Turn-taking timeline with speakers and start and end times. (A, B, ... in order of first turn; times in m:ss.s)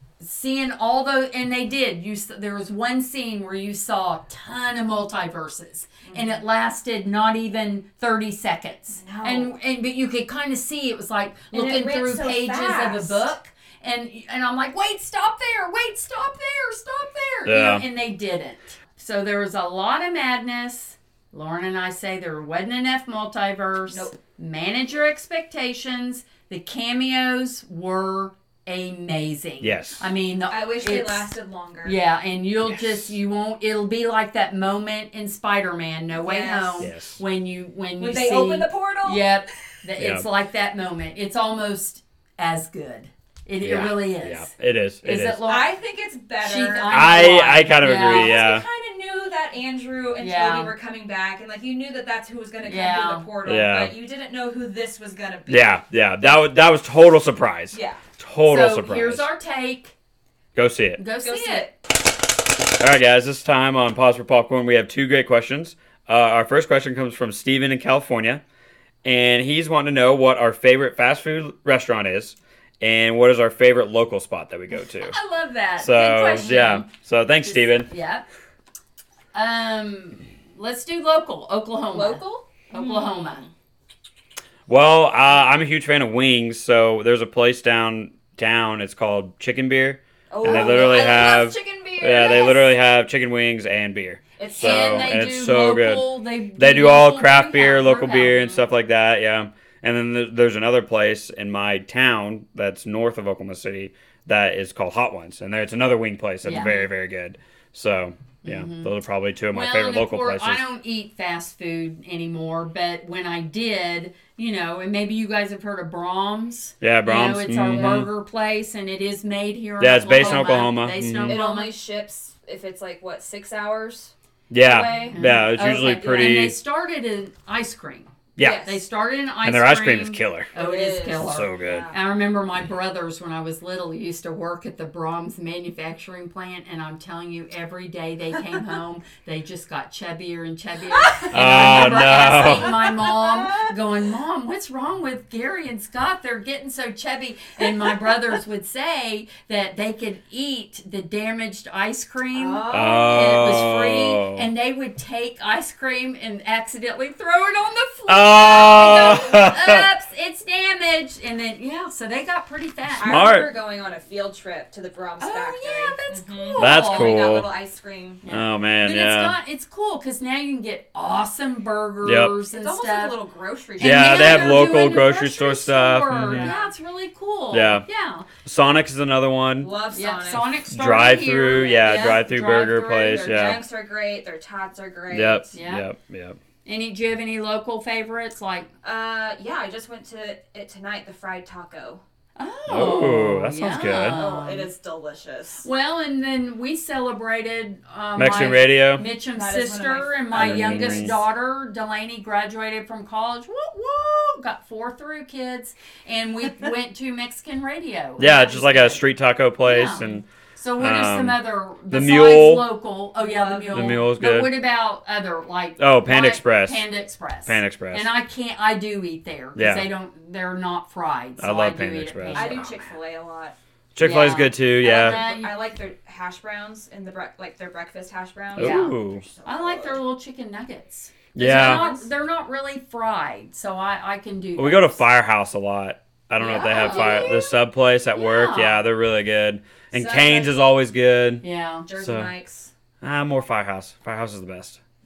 0:00.2-0:31.3 A
0:06.0-0:06.4 B
0:08.9-0:09.5 B
0:11.5-0:13.3 B
0:17.4-0:17.8 C
0:23.9-0:24.1 B
0:29.6-0:30.1 C
0:30.5-0:32.0 B
0:31.8-0:44.5 A
0:32.6-0:33.1 C
0:36.1-0:36.9 B
0:36.8-0:37.2 C
0:38.0-0:39.3 B
0:40.0-0:40.2 C
0:43.6-0:45.4 C
0:45.0-0:45.7 A
0:45.5-0:55.7 B
0:46.4-0:48.4 A
0:46.9-0:48.6 C
0:50.2-0:50.7 A
0:52.6-0:53.3 A
0:53.4-0:53.9 C
0:55.5-0:59.2 C
0:57.7-0:58.0 B
0:58.5-0:59.9 A
1:00.5-1:01.0 C
1:01.0-1:01.7 A
1:01.2-1:01.7 B
1:02.7-1:08.4 C
1:09.0-1:15.1 C
1:14.7-1:16.9 A
1:15.8-1:17.9 C
1:17.4-1:18.2 A
1:19.3-1:23.4 A
1:21.9-1:23.5 B
1:24.7-1:50.6 C
1:30.3-1:32.7 B
1:30.4-1:31.0 A
1:34.4-1:35.2 B
1:34.6-1:38.5 A
1:38.3-1:38.6 B
1:46.4-1:46.8 A
1:46.5-1:46.8 B
1:48.4-1:48.9 A
1:49.5-2:01.7 A
1:56.8-1:58.1 C
1:59.8-2:01.4 C
2:00.2-2:00.4 B
2:01.2-2:05.2 B
2:04.5-2:06.6 C
2:05.1-2:08.1 A
2:06.0-2:06.4 B
2:08.4-2:08.7 C
2:08.4-2:08.8 B
2:08.6-2:43.2 A
2:09.4-2:10.5 C
2:10.5-2:12.0 B
2:11.2-2:11.9 C
2:21.0-2:23.8 B
2:21.3-2:22.8 C
2:27.6-2:28.1 B
2:32.3-2:33.6 B
2:32.7-2:34.5 C
2:38.1-2:39.9 C
2:38.8-2:39.2 B
2:43.0-2:48.2 B
2:43.0-2:43.5 C
2:45.2-2:47.3 A
2:46.6-2:47.5 C
2:48.2-2:53.2 A
2:48.3-2:49.4 C
2:52.0-2:52.3 C
2:52.5-2:55.0 B
2:53.8-2:58.3 A
2:53.8-2:56.5 C
2:56.1-2:56.7 B
2:57.5-2:57.8 C
2:58.4-2:59.7 C
2:59.6-3:00.5 B
2:59.9-3:03.6 A
3:00.7-3:03.6 C
3:01.8-3:05.5 B
3:05.1-3:06.4 C
3:05.5-3:05.9 A
3:06.6-3:08.7 A
3:08.8-3:12.0 B
3:12.4-3:14.7 A
3:12.7-3:14.2 C
3:14.1-3:15.6 B
3:15.6-3:29.0 A
3:18.2-3:19.0 C
3:19.0-3:21.2 B
3:20.3-3:21.2 C
3:28.2-3:30.2 C
3:29.6-3:43.0 A
3:30.8-3:32.7 C
3:33.2-3:34.0 B
3:33.7-3:34.5 C
3:35.8-3:36.8 C
3:37.4-3:38.1 C
3:39.6-3:39.9 C
3:41.4-3:42.7 C
3:42.3-3:43.6 B
3:43.9-3:45.2 C
3:44.0-3:45.5 A
3:44.8-3:50.0 B
3:48.6-3:49.2 C
3:48.6-3:55.0 A
3:51.4-3:51.9 C
3:51.4-3:52.1 B
3:54.6-4:01.4 C
3:56.4-3:57.4 B
3:56.5-3:57.5 A
3:58.1-3:58.8 A
3:59.9-4:00.5 A
4:01.4-4:01.9 A
4:01.9-4:02.7 B
4:02.0-4:02.3 C
4:03.0-4:04.8 C